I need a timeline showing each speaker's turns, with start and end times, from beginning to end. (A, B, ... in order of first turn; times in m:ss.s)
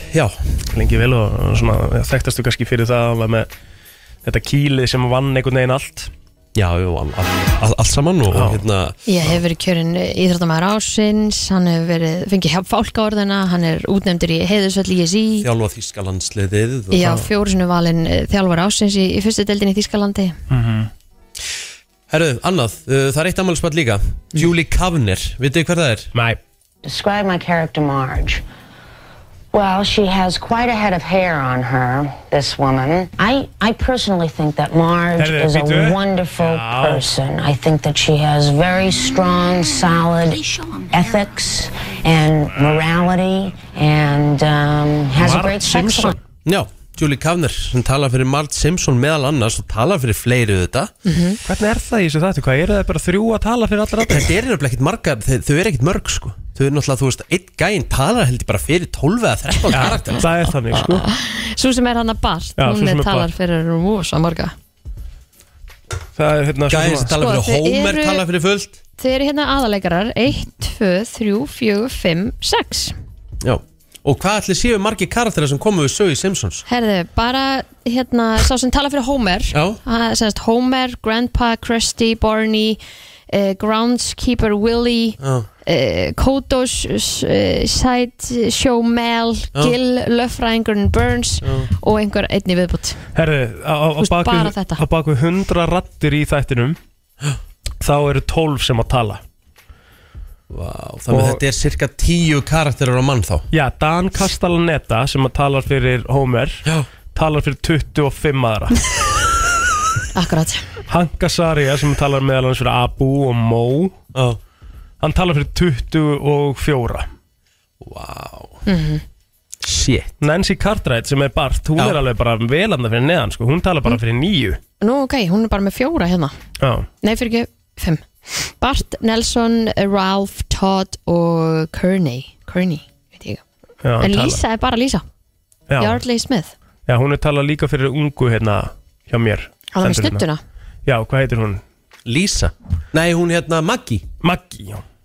0:00.7-0:03.5 A
0:04.2-0:06.1 A
0:06.5-0:09.0 B
0:08.3-0:08.6 A
0:09.0-0:15.5 C
0:15.4-0:17.3 B
0:16.9-0:20.4 C
0:20.5-0:20.9 A
0:22.1-0:26.1 B
0:26.1-0:26.4 A
0:26.8-0:28.4 D
0:29.5-0:46.2 D
0:35.2-0:37.1 A
0:45.2-0:46.2 A
0:46.4-0:50.9 B
0:51.0-0:51.4 C
0:51.4-0:54.2 A
0:54.1-1:00.3 B
0:59.7-1:01.0 A
1:00.8-1:04.5 C
1:02.6-1:03.3 A
1:06.2-1:07.1 A
1:06.7-1:08.8 B
1:07.1-1:08.2 C
1:09.0-1:12.9 C
1:13.4-1:16.6 B
1:16.6-1:22.8 C
1:19.5-1:19.8 B
1:23.3-1:33.0 C
1:25.2-1:25.5 B
1:31.4-1:31.7 B
1:33.1-1:36.8 A
1:34.0-1:34.8 C
1:37.8-1:39.2 A
1:40.5-1:43.4 B
1:41.1-1:41.4 A
1:43.5-1:48.8 A
1:50.1-1:50.7 C
1:50.9-1:54.0 A
1:54.1-1:54.4 B
1:55.0-1:57.1 A
1:57.8-1:58.6 B
1:58.6-1:59.0 C
1:59.6-2:00.1 B
2:00.2-2:04.6 A
2:04.8-2:06.3 C
2:06.6-2:06.9 A
2:07.0-2:13.4 C
2:13.8-2:14.4 A
2:14.0-2:15.0 C
2:15.7-2:16.0 A
2:15.8-2:16.5 C
2:16.9-2:20.2 A
2:19.7-2:20.4 C
2:20.8-2:21.6 A
2:22.0-2:24.0 B
2:24.2-2:24.8 A